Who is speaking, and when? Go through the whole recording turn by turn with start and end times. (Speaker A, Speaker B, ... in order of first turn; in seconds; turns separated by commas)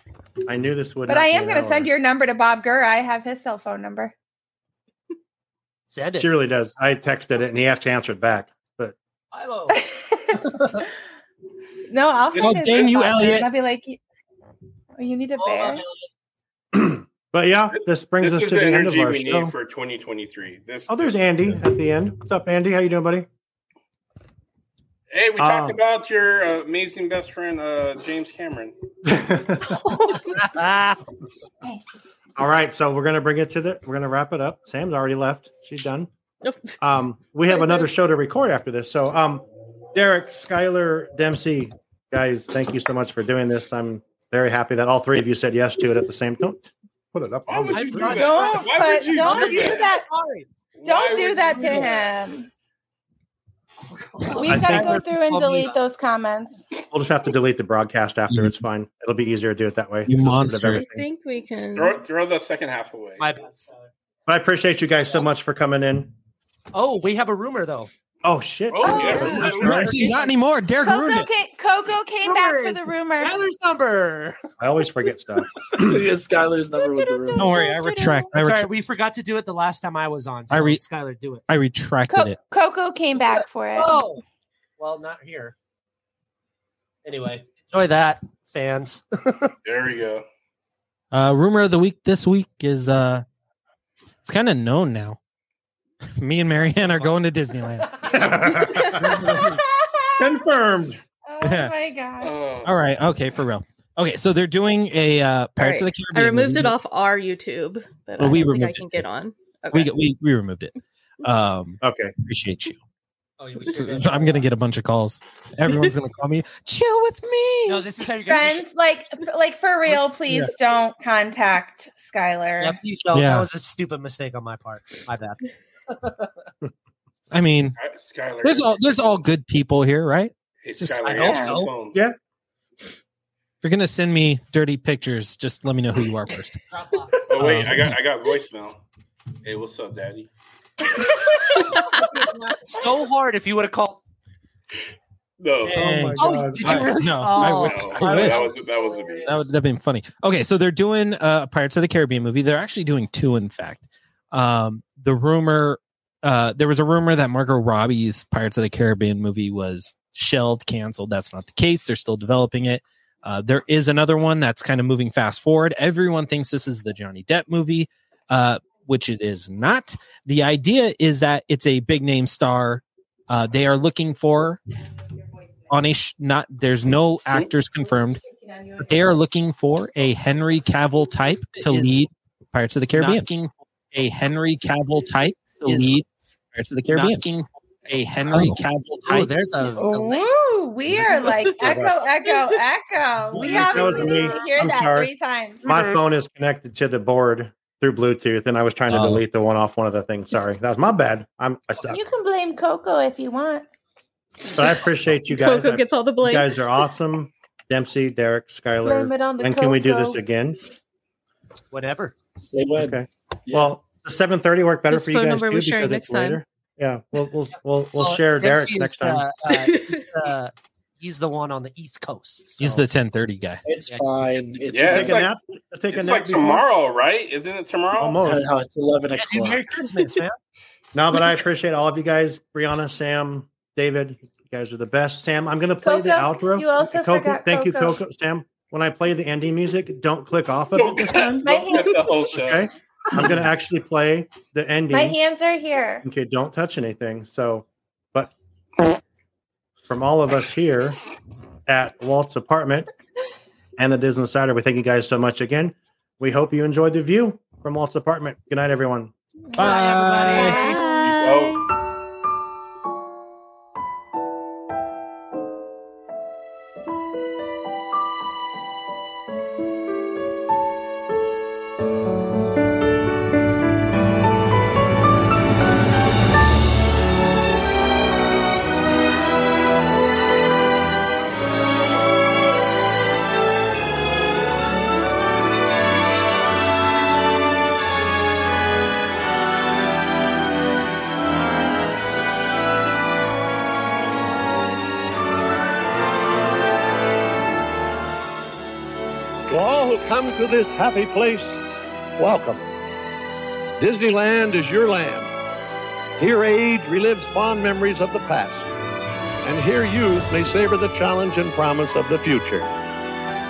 Speaker A: 0.4-1.9, Speaker B: 1.1-4.1, Speaker C: 5.9-6.3, Speaker A: 6.2-8.9, Speaker C: 9.3-9.8, Speaker B: 9.7-10.4, Speaker B: 11.9-14.0, Speaker D: 12.3-12.9, Speaker E: 12.4-13.5, Speaker B: 15.0-15.8, Speaker C: 15.4-16.1, Speaker A: 16.7-19.5, Speaker D: 17.7-21.4, Speaker A: 20.9-23.3, Speaker D: 25.1-28.7, Speaker A: 25.4-25.8, Speaker A: 29.0-29.8, Speaker F: 29.8-30.3, Speaker C: 30.3-31.0, Speaker A: 32.4-36.1, Speaker F: 36.4-36.8, Speaker A: 36.8-48.3, Speaker F: 37.5-37.9, Speaker D: 47.5-49.9, Speaker C: 47.7-50.5, Speaker B: 48.0-50.0, Speaker D: 50.7-52.0, Speaker B: 50.8-52.5, Speaker C: 54.1-55.8, Speaker B: 54.3-56.7, Speaker A: 54.4-55.0, Speaker A: 56.9-61.0, Speaker E: 60.1-60.9, Speaker F: 60.7-62.0, Speaker D: 61.7-63.3, Speaker C: 63.2-63.8, Speaker A: 64.2-66.1, Speaker C: 66.7-67.9, Speaker A: 68.2-70.1, Speaker D: 68.7-69.9, Speaker B: 68.8-69.4, Speaker C: 68.9-70.3, Speaker E: 69.3-71.3, Speaker B: 70.8-73.4, Speaker C: 72.2-74.4, Speaker A: 74.6-75.9, Speaker G: 75.7-77.5, Speaker E: 77.3-78.7, Speaker B: 77.5-78.2, Speaker C: 78.3-81.4, Speaker E: 80.5-80.8, Speaker E: 81.5-82.4, Speaker B: 82.1-84.0, Speaker C: 83.8-84.2, Speaker C: 84.8-85.5, Speaker C: 87.0-89.5, Speaker D: 89.6-90.2, Speaker E: 91.1-93.2, Speaker E: 94.2-95.2, Speaker E: 96.2-98.4, Speaker C: 96.6-97.2, Speaker A: 98.1-99.3, Speaker E: 98.9-99.6, Speaker B: 99.6-100.1, Speaker A: 100.2-101.0, Speaker B: 101.3-102.4, Speaker E: 101.4-101.7, Speaker D: 102.2-102.8, Speaker E: 102.6-106.8, Speaker F: 105.6-109.9, Speaker E: 108.2-109.1, Speaker E: 109.7-110.7, Speaker E: 111.2-112.8, Speaker A: 111.8-112.1, Speaker C: 113.4-114.5, Speaker E: 113.6-117.8, Speaker C: 117.7-118.7, Speaker B: 118.3-122.8, Speaker C: 122.6-126.3, Speaker E: 123.1-123.5, Speaker E: 127.3-127.8, Speaker D: 127.8-128.9, Speaker E: 128.4-131.0, Speaker D: 130.6-132.0, Speaker C: 131.1-131.7, Speaker E: 133.6-136.6, Speaker C: 136.7-137.7, Speaker D: 137.3-138.8, Speaker E: 137.4-137.9, Speaker D: 139.4-140.3, Speaker C: 141.5-144.0, Speaker D: 145.4-145.8, Speaker C: 145.6-149.4, Speaker A: 145.7-146.9, Speaker E: 145.8-148.5, Speaker D: 147.3-149.4, Speaker E: 149.2-174.6, Speaker E: 175.7-178.2, Speaker E: 178.8-189.3, Speaker C: 181.6-181.9, Speaker C: 182.9-183.2, Speaker C: 185.6-185.9, Speaker C: 186.8-187.2, Speaker C: 188.3-190.3, Speaker B: 189.8-195.7, Speaker A: 191.6-191.9, Speaker C: 193.3-194.6, Speaker A: 193.4-195.1, Speaker A: 195.6-202.0, Speaker C: 195.7-195.9, Speaker E: 198.9-199.2, Speaker C: 198.9-199.2, Speaker B: 201.8-203.7, Speaker A: 204.5-210.6, Speaker F: 205.3-206.7, Speaker B: 208.8-210.2, Speaker C: 211.7-212.2, Speaker G: 212.4-213.8, Speaker A: 212.8-219.2, Speaker F: 214.9-216.4, Speaker C: 218.0-222.6, Speaker F: 219.5-220.1, Speaker E: 222.6-223.6, Speaker G: 223.6-225.2, Speaker D: 224.7-225.3, Speaker A: 224.9-226.6, Speaker D: 225.9-228.3, Speaker A: 228.0-228.5, Speaker G: 228.2-230.2, Speaker C: 229.2-230.4, Speaker A: 230.9-241.7, Speaker B: 235.8-238.0, Speaker D: 240.7-242.7, Speaker B: 241.4-242.1, Speaker A: 242.3-245.2, Speaker B: 244.9-246.0, Speaker A: 246.0-248.3, Speaker A: 249.8-251.0, Speaker A: 251.7-252.9, Speaker A: 253.8-259.1, Speaker E: 259.5-260.6, Speaker C: 259.6-260.6, Speaker F: 259.6-261.6, Speaker D: 261.1-261.6, Speaker H: 299.5-301.6, Speaker H: 302.2-302.7, Speaker H: 303.8-305.3, Speaker H: 306.2-308.7, Speaker H: 309.4-312.7